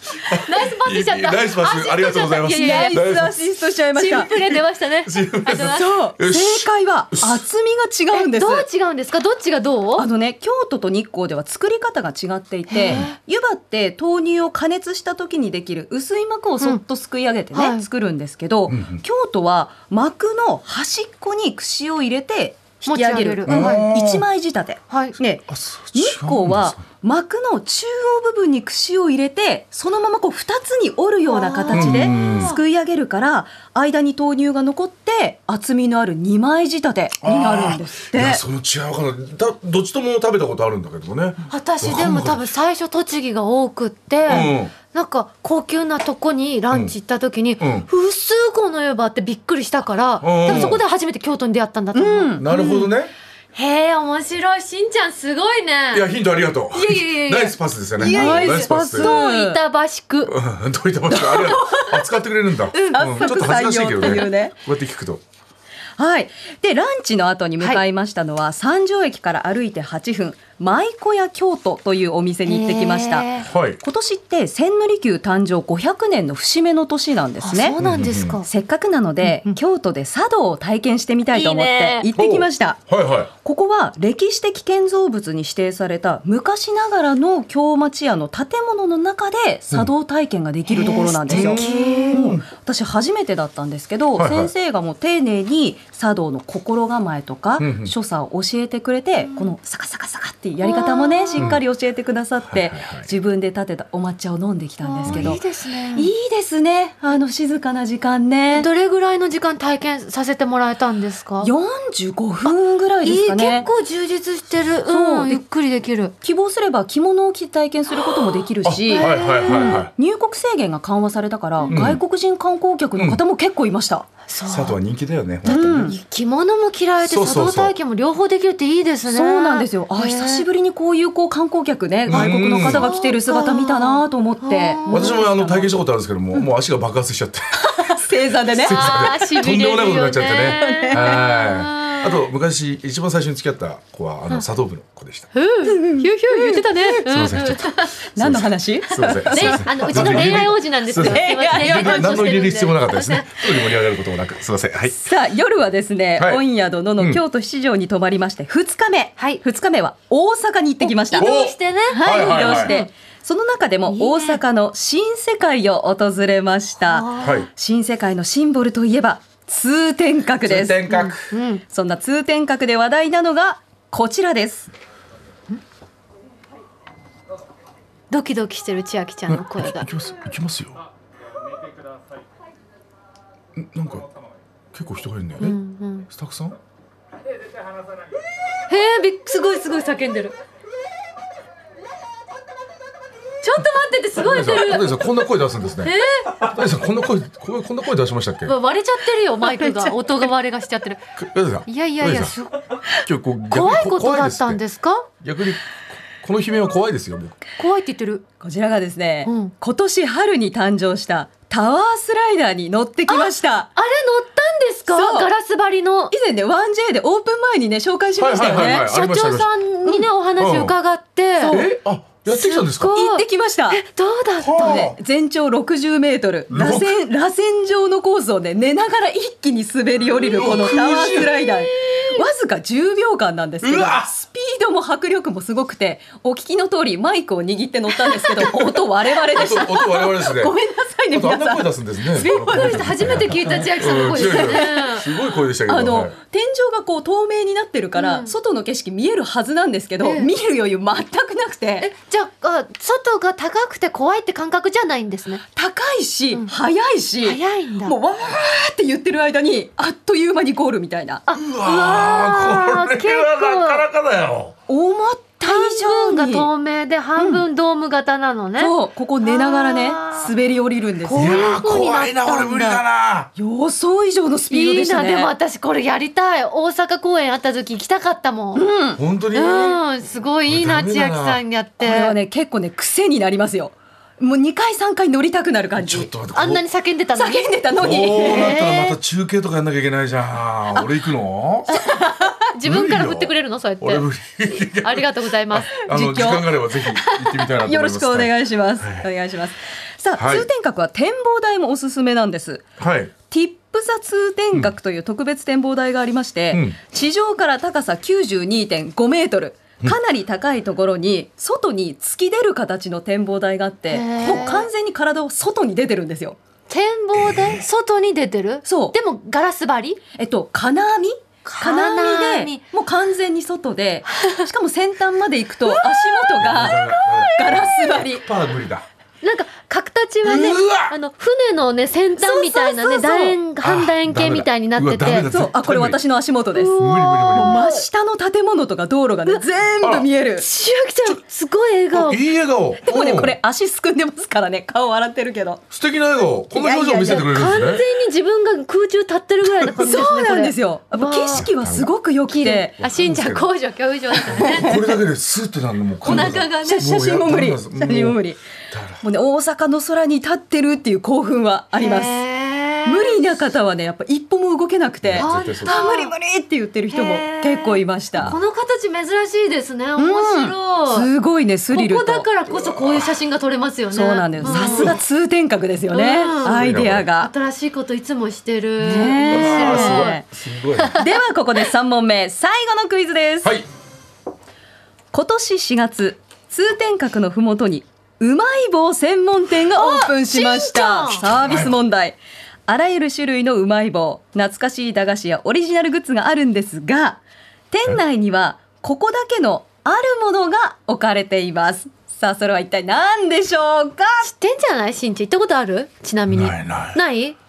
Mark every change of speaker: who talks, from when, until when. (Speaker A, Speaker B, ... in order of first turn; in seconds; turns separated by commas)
Speaker A: 0.2-3.4, Speaker B: 0.3-3.0, Speaker C: 2.5-4.5, Speaker B: 4.0-6.0, Speaker A: 5.0-7.4, Speaker C: 5.6-8.7, Speaker B: 8.1-10.1, Speaker C: 10.0-38.4, Speaker B: 12.7-13.2, Speaker B: 17.5-17.8, Speaker A: 18.7-19.0, Speaker B: 22.8-23.9, Speaker A: 23.5-24.2, Speaker B: 24.9-25.1, Speaker A: 25.5-26.8, Speaker B: 31.3-32.6, Speaker A: 31.7-32.5, Speaker A: 37.2-42.4, Speaker B: 41.5-52.9, Speaker A: 44.2-44.7, Speaker A: 47.6-47.9, Speaker A: 50.2-50.8, Speaker C: 51.9-52.5, Speaker A: 52.4-53.1, Speaker B: 53.5-56.0, Speaker A: 55.9-59.1, Speaker B: 56.7-60.4, Speaker C: 58.0-59.6, Speaker A: 60.2-65.2, Speaker C: 61.1-61.9, Speaker B: 62.7-63.3, Speaker C: 62.8-64.5, Speaker C: 66.0-77.8, Speaker B: 72.5-73.5, Speaker A: 73.5-73.8, Speaker B: 77.4-78.5, Speaker A: 77.8-78.4, Speaker C: 78.4-82.8, Speaker B: 79.2-79.6, Speaker B: 81.3-82.1, Speaker A: 82.1-83.3, Speaker C: 83.4-105.4, Speaker B: 90.7-92.2, Speaker A: 91.3-92.4, Speaker A: 94.2-94.5, Speaker A: 97.6-97.9, Speaker B: 99.2-99.5, Speaker B: 100.6-101.5, Speaker A: 101.4-101.6, Speaker A: 102.5-103.1, Speaker B: 104.8-106.1, Speaker A: 105.0-105.4, Speaker C: 105.9-108.7, Speaker B: 108.5-111.5, Speaker C: 111.4-113.7, Speaker B: 113.0-116.1, Speaker C: 114.9-115.4, Speaker C: 116.2-124.1, Speaker A: 118.6-119.9, Speaker B: 118.9-119.8, Speaker A: 121.7-122.0, Speaker A: 123.0-123.2, Speaker B: 124.3-124.8, Speaker A: 124.5-125.9, Speaker B: 125.4-130.4, Speaker C: 125.5-126.0, Speaker A: 127.0-127.8, Speaker C: 129.1-135.7, Speaker A: 132.1-132.9, Speaker B: 132.1-135.2, Speaker A: 134.9-137.9, Speaker C: 137.6-139.0, Speaker A: 138.5-145.3, Speaker B: 138.6-142.2, Speaker C: 140.6-141.1, Speaker B: 145.3-147.9, Speaker C: 145.6-147.0, Speaker A: 147.1-155.0, Speaker C: 148.1-152.4, Speaker B: 149.3-153.5, Speaker C: 154.9-161.3, Speaker A: 156.2-156.4, Speaker B: 160.8-162.9, Speaker A: 161.2-162.8, Speaker C: 161.9-170.8, Speaker B: 163.9-164.4, Speaker B: 166.8-167.4, Speaker A: 167.2-167.5, Speaker A: 170.4-171.3, Speaker B: 170.9-171.6, Speaker C: 171.7-174.7, Speaker B: 178.1-179.9, Speaker A: 179.3-180.8, Speaker A: 183.5-184.1, Speaker A: 184.7-185.6, Speaker B: 185.4-186.1, Speaker A: 186.1-186.6, Speaker B: 188.7-190.3, Speaker B: 193.4-195.0, Speaker A: 194.2-198.5, Speaker B: 195.8-196.4, Speaker B: 198.4-201.0, Speaker A: 201.2-202.3, Speaker B: 201.7-202.8, Speaker A: 203.0-204.6, Speaker B: 203.5-205.1, Speaker A: 205.2-207.4, Speaker B: 207.6-208.2, Speaker C: 208.4-213.7, Speaker B: 209.2-209.5, Speaker B: 213.1-216.1, Speaker C: 214.9-215.3, Speaker C: 216.1-218.9, Speaker A: 218.2-219.5, Speaker B: 218.4-221.7, Speaker A: 220.4-220.7, Speaker C: 221.4-221.7, Speaker A: 221.5-222.9, Speaker B: 222.2-224.9, Speaker C: 222.9-223.8, Speaker A: 224.4-225.0, Speaker C: 224.6-244.9, Speaker A: 226.5-227.0, Speaker A: 230.2-231.3, Speaker B: 230.8-232.2, Speaker A: 233.6-234.1, Speaker A: 239.3-240.6, Speaker A: 241.1-246.1, Speaker B: 242.1-245.1, Speaker C: 245.7-251.9, Speaker B: 247.9-248.3, Speaker B: 250.0-250.3, Speaker B: 251.8-255.4, Speaker C: 255.5-261.2, Speaker B: 257.2-257.9, Speaker B: 261.3-263.8, Speaker A: 261.3-264.6, Speaker C: 264.7-266.5, Speaker B: 265.4-270.3, Speaker C: 267.2-267.4, Speaker C: 268.6-271.4, Speaker B: 271.0-272.8, Speaker A: 271.1-273.3, Speaker C: 273.4-275.3, Speaker B: 274.5-278.7, Speaker C: 278.5-279.0, Speaker A: 279.0-279.8, Speaker B: 279.3-282.1, Speaker A: 280.5-281.4, Speaker C: 281.8-286.1, Speaker A: 285.8-286.6, Speaker B: 286.3-289.0, Speaker C: 287.1-288.6, Speaker A: 287.8-291.8, Speaker B: 291.7-295.8, Speaker C: 292.0-292.3, Speaker A: 292.6-299.1, Speaker C: 295.8-296.5, Speaker B: 296.9-297.4, Speaker C: 297.6-302.6, Speaker A: 300.2-300.5, Speaker A: 302.8-303.1, Speaker C: 303.3-316.4, Speaker A: 306.5-306.8, Speaker B: 313.9-314.7, Speaker B: 316.7-320.0, Speaker A: 317.1-317.6, Speaker C: 318.6-318.9, Speaker C: 320.2-326.8, Speaker B: 321.4-322.6, Speaker B: 324.1-324.4, Speaker B: 325.6-327.7, Speaker A: 326.4-328.9, Speaker C: 327.4-328.2, Speaker B: 329.2-335.3, Speaker A: 330.2-330.9, Speaker C: 332.2-333.4, Speaker A: 333.6-336.0, Speaker C: 335.2-340.5, Speaker B: 336.5-337.9, Speaker A: 336.8-337.6, Speaker A: 339.8-340.1, Speaker B: 340.4-342.2, Speaker A: 341.9-343.4, Speaker C: 342.8-345.6, Speaker A: 345.7-347.8, Speaker C: 346.5-347.3, Speaker B: 347.0-351.5, Speaker C: 349.8-352.7, Speaker A: 351.3-351.9, Speaker B: 352.3-354.9, Speaker A: 352.8-353.5, Speaker A: 354.2-358.2, Speaker C: 354.3-354.8, Speaker B: 356.0-356.9, Speaker C: 356.0-358.4, Speaker A: 358.7-359.0, Speaker C: 359.0-362.2, Speaker B: 361.7-363.2, Speaker C: 362.8-368.3, Speaker A: 365.0-365.8, Speaker B: 365.2-366.1, Speaker B: 366.9-371.1, Speaker C: 370.0-372.2, Speaker B: 371.7-375.0, Speaker A: 372.5-373.1, Speaker C: 373.9-377.3, Speaker A: 374.4-375.0, Speaker B: 375.9-380.2, Speaker A: 376.4-377.1, Speaker C: 378.8-380.2, Speaker A: 379.3-381.0, Speaker B: 380.8-381.1, Speaker C: 380.9-383.5, Speaker C: 385.1-404.2, Speaker B: 389.7-391.2, Speaker A: 391.3-391.8, Speaker B: 404.2-407.4, Speaker A: 406.3-407.0